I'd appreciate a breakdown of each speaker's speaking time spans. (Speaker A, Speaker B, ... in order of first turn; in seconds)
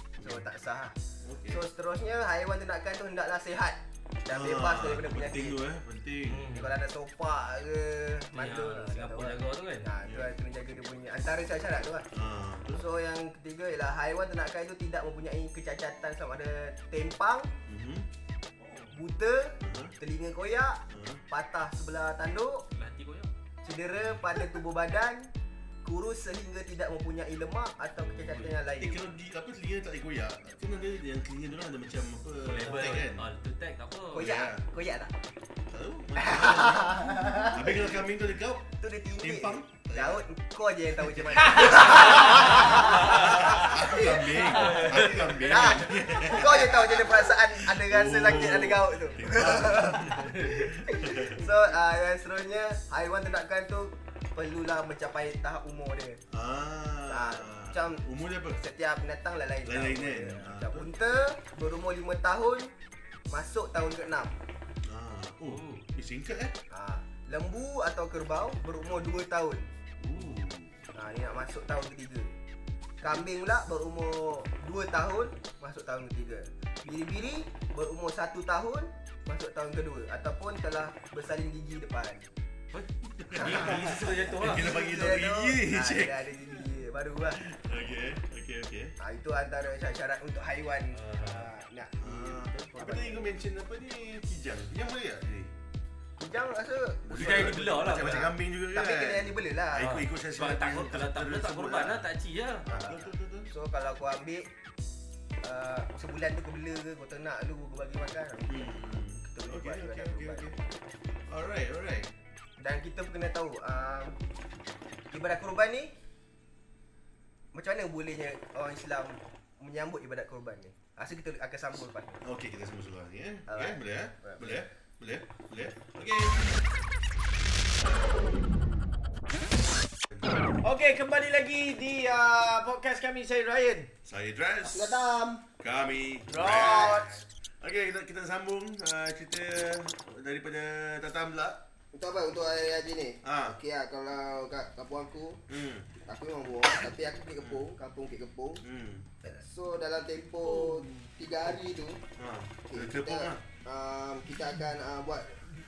Speaker A: 0.2-0.5, 1.2-1.6, 4.3-6.5, 10.0-10.3, 12.1-12.8, 17.7-18.1, 19.6-19.9, 20.9-21.2, 28.8-33.3, 34.1-34.6, 35.7-40.2, 41.0-51.5, 56.3-58.6, 59.6-60.9, 64.8-66.6, 70.0-70.8, 83.1-86.3, 87.3-88.9, 92.0-95.5, 97.0-102.0, 102.6-103.5, 108.5-110.5, 111.3-112.1, 122.2-126.5, 130.1-130.5, 134.0-135.0, 135.6-137.0, 137.6-141.6, 143.2-143.6, 145.5-145.9, 147.4-147.7, 148.6-149.1, 152.2-153.4
Speaker B: 0.2-0.9, 1.5-5.6, 6.5-12.1, 12.7-17.5, 18.9-22.6, 23.6-25.3, 25.8-29.1, 34.1-35.1, 36.2-37.8, 38.8-56.2, 57.1-62.7, 63.3-64.3, 66.7-69.7, 70.9-72.3, 73.0-82.3, 83.3-87.4, 89.0-93.3, 96.2-99.9, 102.7-104.5, 105.4-110.6, 112.6-114.2, 115.1-115.9, 117.5-122.2, 123.5-124.6, 134.7-135.4, 136.4-137.2, 141.9-145.4, 146.0-148.6, 149.2-152.0, 152.7-155.4
Speaker C: 6.2-6.8, 8.3-9.9, 18.6-18.9, 22.7-23.3, 28.0-28.6, 32.4-34.3, 41.6-45.8, 50.2-50.5, 65.5-65.8, 82.7-84.7, 90.9-91.5, 97.1-98.3, 99.8-102.7
Speaker D: 130.6-133.9, 136.3-137.2, 150.5-150.9